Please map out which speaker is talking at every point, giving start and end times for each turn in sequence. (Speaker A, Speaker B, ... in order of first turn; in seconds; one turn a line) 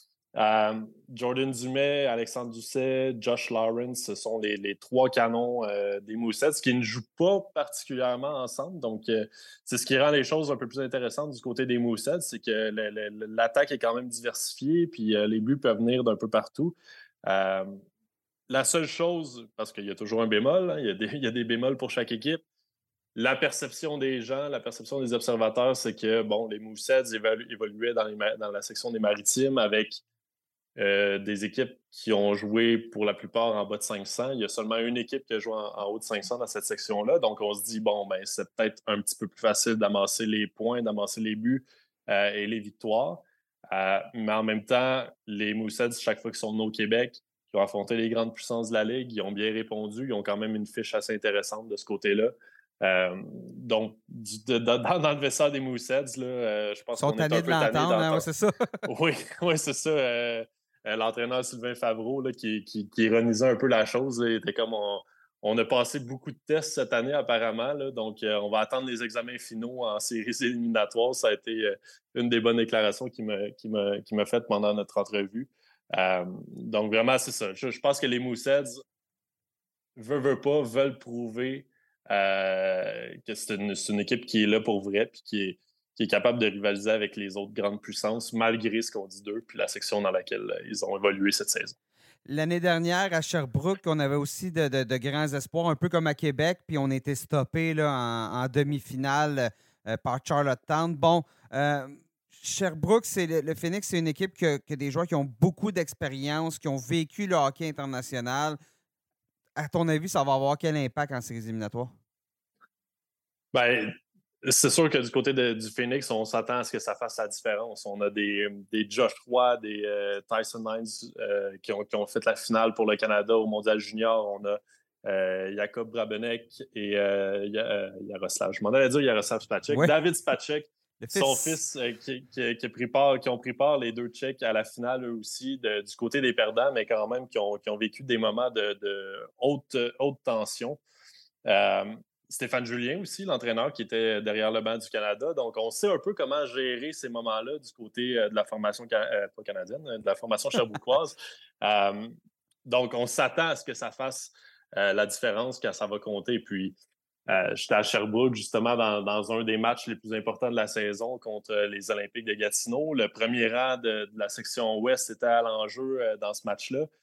Speaker A: 0.3-16.7
Speaker A: 17.2-17.8
Speaker A: 18.5-22.4
Speaker A: 23.1-30.0
Speaker A: 30.8-58.3
Speaker B: 57.0-58.8
Speaker A: 58.9-78.8
Speaker A: 80.0-91.7
Speaker B: 92.2-108.6
Speaker B: 109.5-111.9
Speaker A: 113.5-140.8
Speaker B: 131.0-131.6
Speaker A: 141.4-152.1
Speaker A: 152.7-156.8
Speaker A: 157.3-166.9